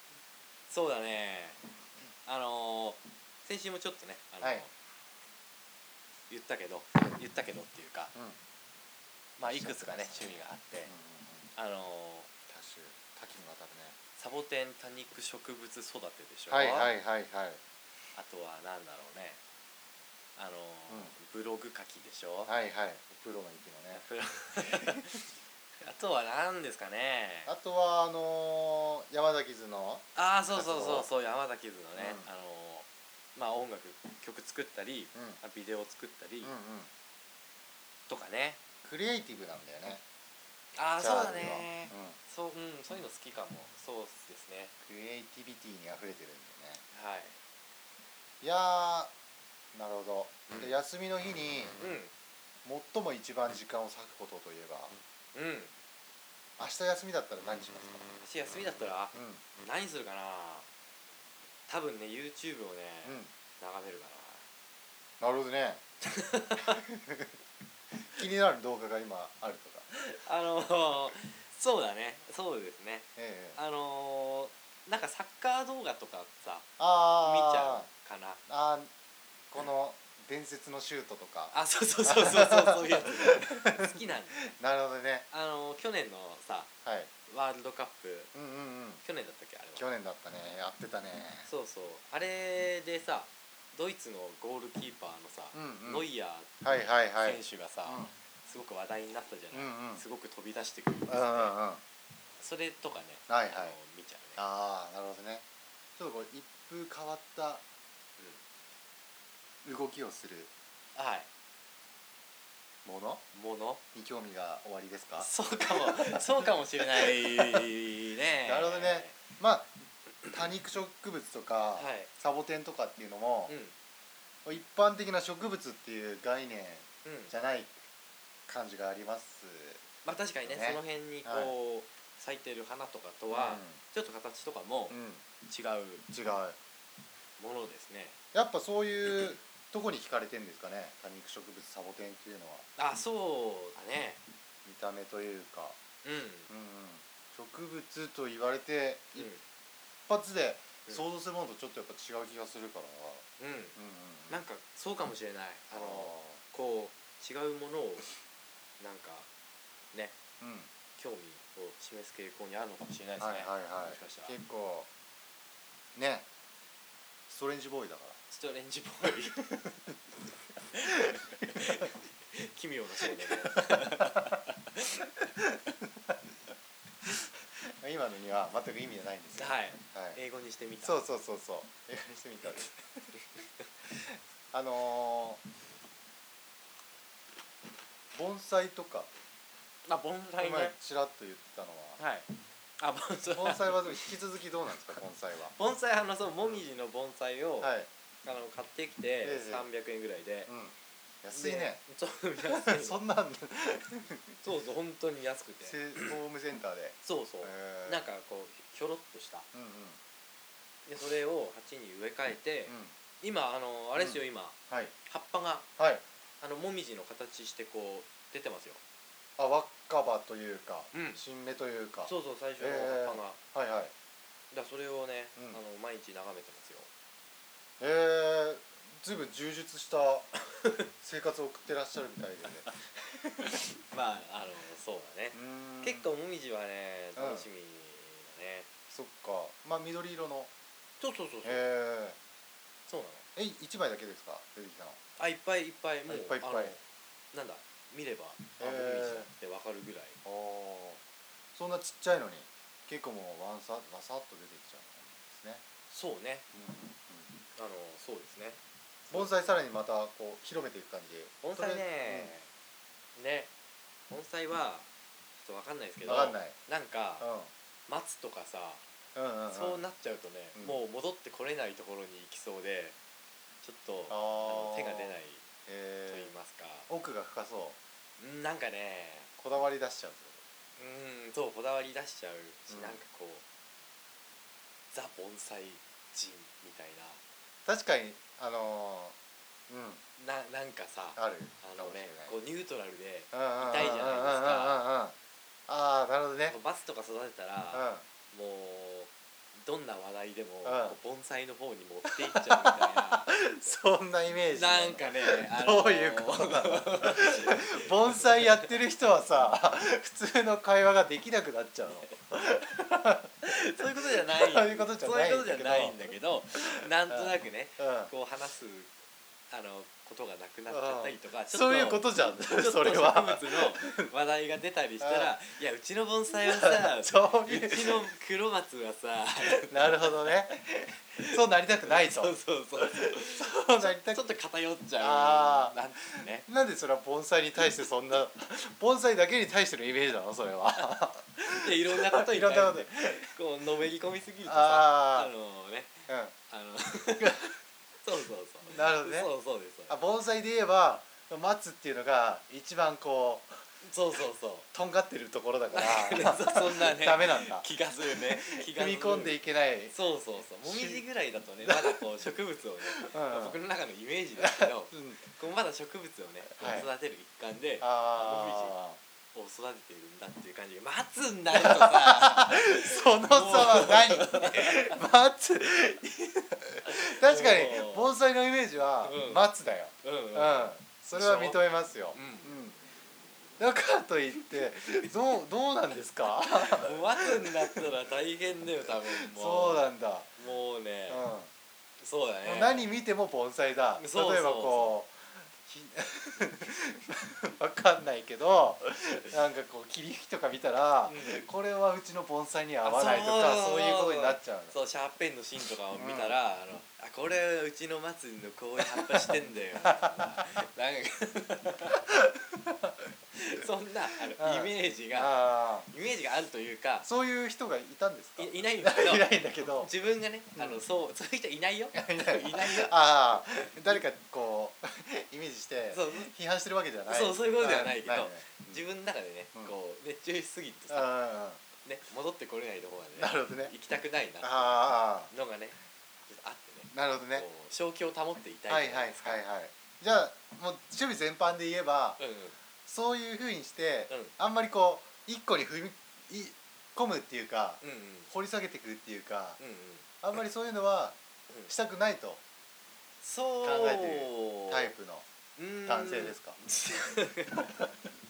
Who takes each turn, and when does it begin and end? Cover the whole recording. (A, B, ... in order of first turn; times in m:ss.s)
0:00.7-0:01.6 A
0:02.2-0:04.7 A
0:06.3-0:08.1 A
0:09.4-0:10.9 A
0:09.4-0:11.5 B
0:11.6-0:12.3 A
0:12.5-0:14.0 B
0:14.2-0:16.9 A
0:16.5-0:17.6 B
0:18.1-0:19.4 A
0:20.4-0:22.5 A
0:22.5-0:24.0 B
0:23.9-0:25.2 A
0:25.8-0:27.5 A
0:27.4-0:31.1 B
0:30.2-0:36.5 A
0:32.0-0:32.3 B
0:35.1-0:35.4 B
0:36.4-0:36.9 B
0:38.1-0:38.6 A
0:38.8-0:40.0 B
0:40.8-0:44.7 A
0:41.0-0:42.2 B
0:44.8-0:46.8 B
0:46.9-0:47.4 A
0:48.4-0:49.1 B
0:49.7-0:51.8 B
0:51.8-0:52.1 A
0:52.6-0:54.9 B
0:55.3-0:55.7 A
0:56.6-0:58.1 B
0:58.2-1:00.7 A
0:59.1-0:59.4 B
1:01.7-1:04.4 A
1:03.0-1:03.3 B
1:05.2-1:05.8 B
1:06.0-1:06.8 A
1:06.6-1:07.3 B
1:08.1-1:09.9 B
1:09.9-1:18.4 A
1:13.2-1:13.6 B
1:16.8-1:17.9 B
1:18.5-1:18.9 B
1:19.5-1:25.2 B
1:21.5-1:24.5 A
1:25.3-1:26.7 A
1:26.8-1:27.1 B
1:27.3-1:28.3 A
1:28.3-1:29.0 B
1:29.0-1:29.8 A
1:29.8-1:31.5 B
1:31.4-1:36.5 A
1:35.5-1:36.1 B
1:36.6-1:38.1 B
1:37.2-1:41.6 A
1:39.5-1:40.0 B
1:41.1-1:41.8 B
1:42.4-1:44.4 A
1:43.3-1:43.8 B
1:44.4-1:45.4 B
1:46.0-1:47.6 B
1:49.6-1:50.5 B
1:50.9-1:51.3 A
1:52.8-1:53.2 B
1:53.3-1:53.8 A
1:53.9-1:57.7 B
1:55.2-1:59.2 A
1:58.4-1:59.7 B
2:00.3-2:03.5 B
2:01.8-2:02.1 A
2:03.5-2:03.7 A
2:04.4-2:07.7 B
2:07.0-2:07.3 A
2:08.5-2:09.8 B
2:10.0-2:16.0 A
2:10.4-2:11.5 B
2:13.3-2:13.8 B
2:14.9-2:15.2 B
2:16.1-2:16.6 B
2:17.4-2:18.2 A
2:18.3-2:22.6 B
2:22.8-2:24.2 A
2:24.6-2:25.8 B
2:26.0-2:26.5 A
2:26.5-2:29.3 B
2:29.2-2:29.4 A
2:30.1-2:34.4 B
2:33.4-2:33.8 A
2:34.3-2:38.1 A
2:35.7-2:36.4 B
2:38.8-2:39.3 A
2:40.4-2:40.7 B
2:41.0-2:44.4 A
2:43.2-2:44.9 B
2:45.9-2:46.2 B
2:47.3-2:48.2 B
2:48.3-2:49.6 A
2:50.7-2:55.0 A
2:50.9-2:51.8 B
2:53.1-2:54.3 B
2:55.0-2:56.2 B
2:57.0-3:00.2 B
2:59.4-3:01.0 A
3:00.8-3:03.0 B
3:03.9-3:05.4 B
3:08.1-3:09.1 B
3:09.8-3:10.7 A
3:10.4-3:12.0 B
3:12.0-3:12.3 A
3:12.8-3:14.1 A
3:13.3-3:15.5 B
3:15.5-3:17.7 A
3:17.6-3:17.9 B
3:18.2-3:20.5 A
3:19.2-3:19.7 B
3:20.5-3:21.8 B
3:21.3-3:23.0 A
3:22.4-3:24.4 B
3:24.4-3:26.2 A
3:25.6-3:28.0 B
3:27.0-3:29.5 A
3:29.5-3:30.0 B
3:30.8-3:35.6 A
3:32.7-3:32.9 B
3:34.0-3:34.9 B
3:35.8-3:36.0 B
3:36.4-3:38.8 A
3:39.4-3:43.9 B
3:40.9-3:41.2 A
3:42.0-3:43.4 A
3:44.5-3:46.9 A
3:47.8-3:50.3 B
3:50.6-3:50.9 A
3:51.0-3:52.7 B
3:53.4-3:58.7 A
3:55.3-3:56.1 B
3:57.2-3:57.5 B
3:58.9-4:00.5 B
4:01.0-4:01.6 A
4:01.4-4:02.2 B
4:02.9-4:03.2 A
4:03.4-4:05.0 B
4:05.2-4:06.8 A
4:06.1-4:06.8 B
4:07.3-4:10.2 A
4:08.6-4:09.3 B
4:10.2-4:11.0 B
4:11.5-4:15.6 B
4:15.9-4:16.4 A
4:16.5-4:17.3 B
4:17.5-4:18.6 A
4:19.1-4:22.3 B
4:21.4-4:22.5 A
4:23.2-4:23.5 A
4:24.1-4:27.3 A
4:26.0-4:26.6 B
4:27.2-4:27.5 B
4:27.9-4:28.8 A
4:29.1-4:29.8 B
4:29.5-4:33.0 A
4:33.6-4:35.4 A
4:34.1-4:36.3 B
4:36.1-4:36.9 A
4:36.9-4:37.8 B
4:38.2-4:39.3 A
4:39.4-4:40.4 B
4:40.8-4:43.4 A
4:42.7-4:43.0 B
4:44.9-4:47.2 A
4:47.6-4:49.2 B
4:49.7-4:50.0 B
4:50.2-4:54.8 A
4:51.2-4:52.3 B
4:53.3-4:55.1 B
4:55.7-4:56.6 B
4:56.5-5:03.7 A
4:57.7-4:58.0 B
5:00.6-5:01.0 B
5:02.1-5:18.1 B
5:04.5-5:08.7 A
5:13.4-5:18.9 A
5:19.5-5:36.4 A
5:20.7-5:24.1 B
5:25.0-5:25.4 B
5:26.5-5:28.0 B
5:29.6-5:30.6 B
5:31.2-5:34.2 B
5:35.0-5:43.3 B
5:41.5-5:47.5 A
5:44.4-5:45.3 B
5:46.1-5:46.3 B
5:48.0-5:50.0 A
5:48.7-5:49.3 B
5:49.9-5:53.6 B
5:53.8-5:54.7 A
5:54.7-5:59.9 B
5:55.7-5:59.4 A
5:59.9-6:08.8 A
6:00.6-6:01.0 B
6:01.6-6:02.0 B
6:02.9-6:03.6 B
6:04.4-6:05.2 B
6:06.6-6:06.9 B
6:07.8-6:09.0 B
6:09.3-6:15.0 A
6:11.5-6:22.8 B
6:16.8-6:18.2 A
6:19.0-6:19.5 A
6:20.0-6:21.6 A
6:22.1-6:22.5 A
6:23.6-6:27.8 B
6:26.5-6:31.2 A
6:28.9-6:30.3 B
6:31.1-6:31.5 B
6:32.0-6:32.9 A
6:32.4-6:44.7 B
6:34.0-6:35.0 A
6:41.1-6:41.4 A
6:42.8-6:52.0 A
6:46.0-6:46.4 B
6:48.8-6:50.5 B
6:52.1-6:52.9 B
6:53.3-6:57.1 A
6:54.3-6:55.9 B
6:57.0-6:59.9 B
6:58.4-7:03.0 A
7:00.5-7:00.8 B
7:01.9-7:08.8 B
7:03.6-7:03.9 A
7:05.9-7:06.3 A
7:07.1-7:11.1 A
7:10.9-7:11.6 B
7:11.8-7:15.8 A
7:13.2-7:13.7 B
7:14.4-7:15.3 B
7:16.3-7:19.4 A
7:16.9-7:17.4 B
7:18.7-7:22.2 B
7:22.2-7:22.6 A
7:22.8-7:29.6 B
7:27.8-7:28.3 A
7:29.6-7:30.0 A
7:30.2-7:31.2 B
7:31.7-7:32.4 B
7:33.2-7:34.9 A
7:33.6-7:35.2 B
7:35.6-7:37.8 A
7:35.8-7:36.6 B
7:37.6-7:37.9 B